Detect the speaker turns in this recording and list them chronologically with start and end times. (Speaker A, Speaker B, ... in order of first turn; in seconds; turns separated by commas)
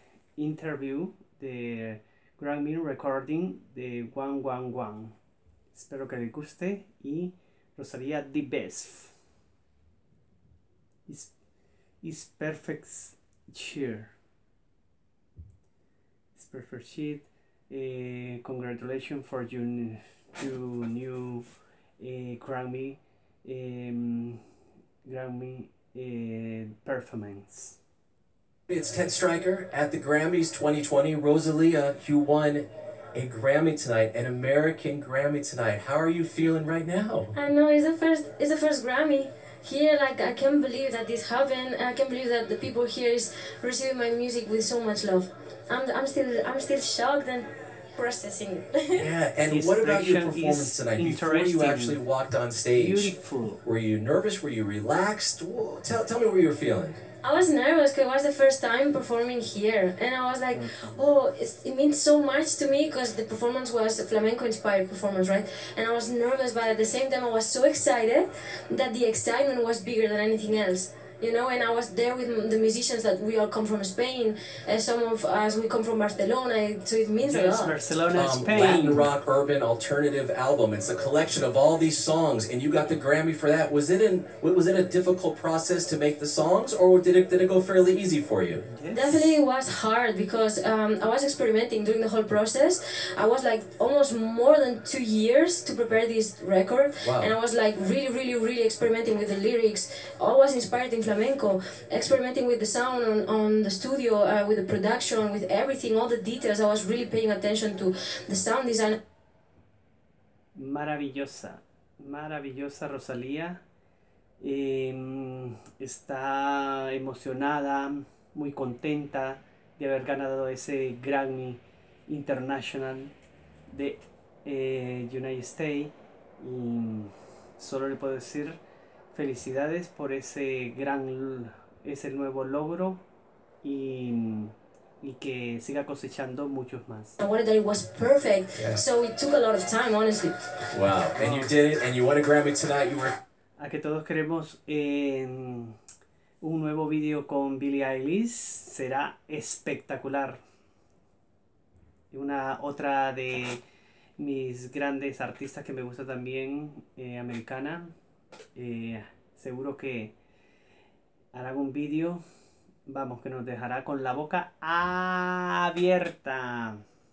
Speaker A: 0.4-5.1, Speaker A: 5.7-9.1, Speaker A: 11.1-11.3, Speaker A: 12.0-14.1, Speaker A: 16.3-21.4, Speaker A: 22.0-24.4, Speaker A: 25.0-27.8, Speaker B: 28.7-37.3, Speaker C: 37.3-49.0, Speaker B: 48.9-57.0, Speaker A: 49.4-52.0, Speaker A: 52.7-53.6, Speaker C: 57.2-77.8, Speaker A: 60.5-61.0, Speaker A: 77.2-79.1, Speaker B: 78.1-88.6, Speaker A: 88.7-89.4, Speaker C: 88.9-109.0, Speaker B: 97.0-97.3, Speaker A: 110.5-113.6, Speaker A: 114.4-123.1, Speaker A: 123.7-128.6, Speaker A: 129.1-133.0, Speaker A: 133.6-137.2, Speaker C: 137.2-140.3, Speaker B: 138.6-138.8, Speaker B: 140.7-143.2, Speaker A: 141.2-141.5, Speaker A: 143.6-145.8, Speaker A: 146.4-150.4, Speaker A: 152.1-153.6, Speaker A: 154.2-157.9, Speaker A: 158.5-160.1, Speaker A: 161.3-162.2, Speaker A: 162.8-166.8